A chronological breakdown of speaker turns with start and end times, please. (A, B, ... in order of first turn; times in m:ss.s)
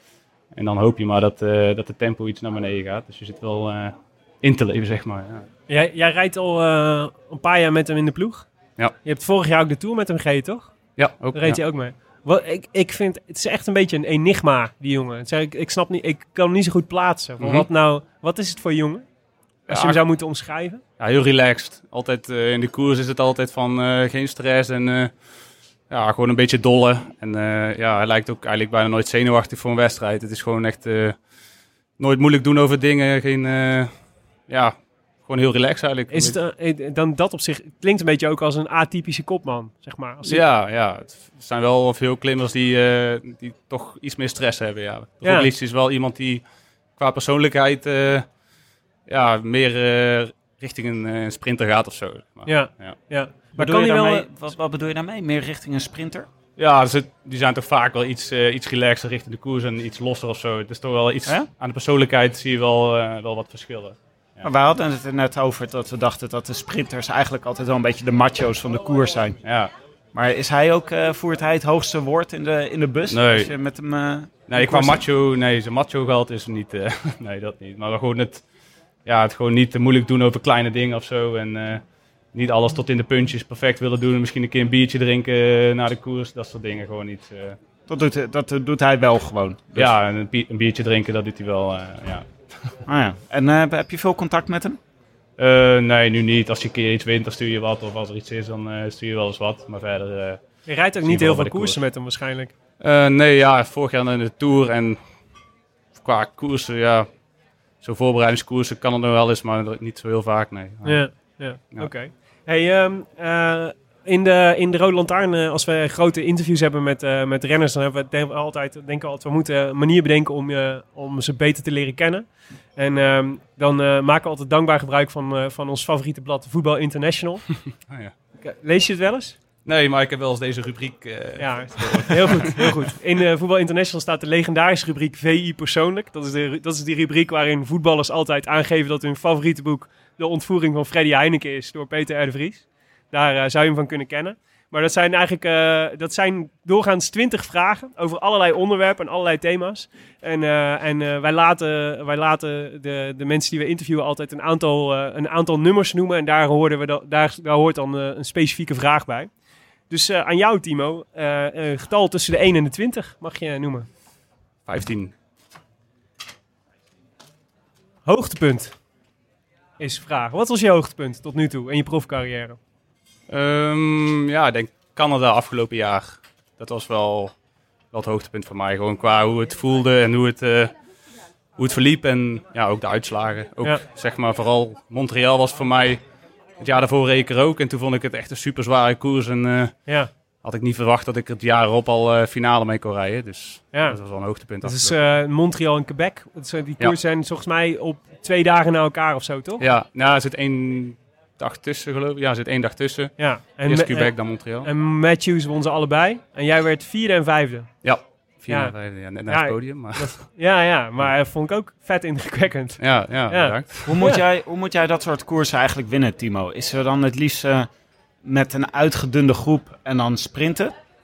0:00.5-0:05.4 A
0:05.7-0:08.5 B
0:09.0-0:10.7 B
0:11.0-0:11.6 A
0:11.3-0:19.0 B
0:17.4-0:17.6 A
0:19.7-0:20.0 A
0:19.7-0:20.8 B
0:21.0-0:25.1 A
0:25.9-0:31.2 A
0:32.0-0:33.9 A
0:34.5-0:36.4 A
0:36.1-0:40.4 B
0:40.2-0:46.4 A
0:45.2-0:45.5 B
0:47.0-0:48.2 A
0:49.1-0:53.0 A
0:52.4-0:54.3 B
0:53.6-0:56.3 C
0:56.6-1:04.4 A
1:04.4-1:09.4 C
1:09.4-1:09.7 A
1:10.1-1:15.0 C
1:13.1-1:13.5 A
1:14.5-1:18.4 A
1:19.0-1:21.8 A
1:22.3-1:27.6 A
1:27.9-1:29.9 C
1:29.7-1:32.7 A
1:32.9-1:34.8 C
1:35.4-1:40.4 A
1:40.6-1:42.5 B
1:41.0-1:41.8 A
1:42.8-1:45.0 A
1:46.0-1:47.1 A
1:47.8-1:51.9 A
1:50.8-2:02.2 B
2:02.8-2:07.4 B
2:08.4-2:09.4 B
2:09.6-2:12.9 A
2:11.4-2:39.3 B
2:39.9-2:43.9 B
2:44.7-2:45.1 A
2:48.0-2:48.8 B
2:49.8-2:52.6 B
2:53.3-2:57.3 A
2:57.9-3:00.7 A
3:01.6-3:06.0 A
3:06.6-3:09.8 A
3:10.4-3:15.0 A
3:14.6-3:19.6 B
3:19.6-3:24.7 A
3:23.2-3:27.8 B
3:27.8-3:30.3 A
3:28.5-3:28.7 B
3:29.3-3:34.2 B
3:32.8-3:34.0 A
3:33.8-3:37.7 C
3:38.2-3:40.7 C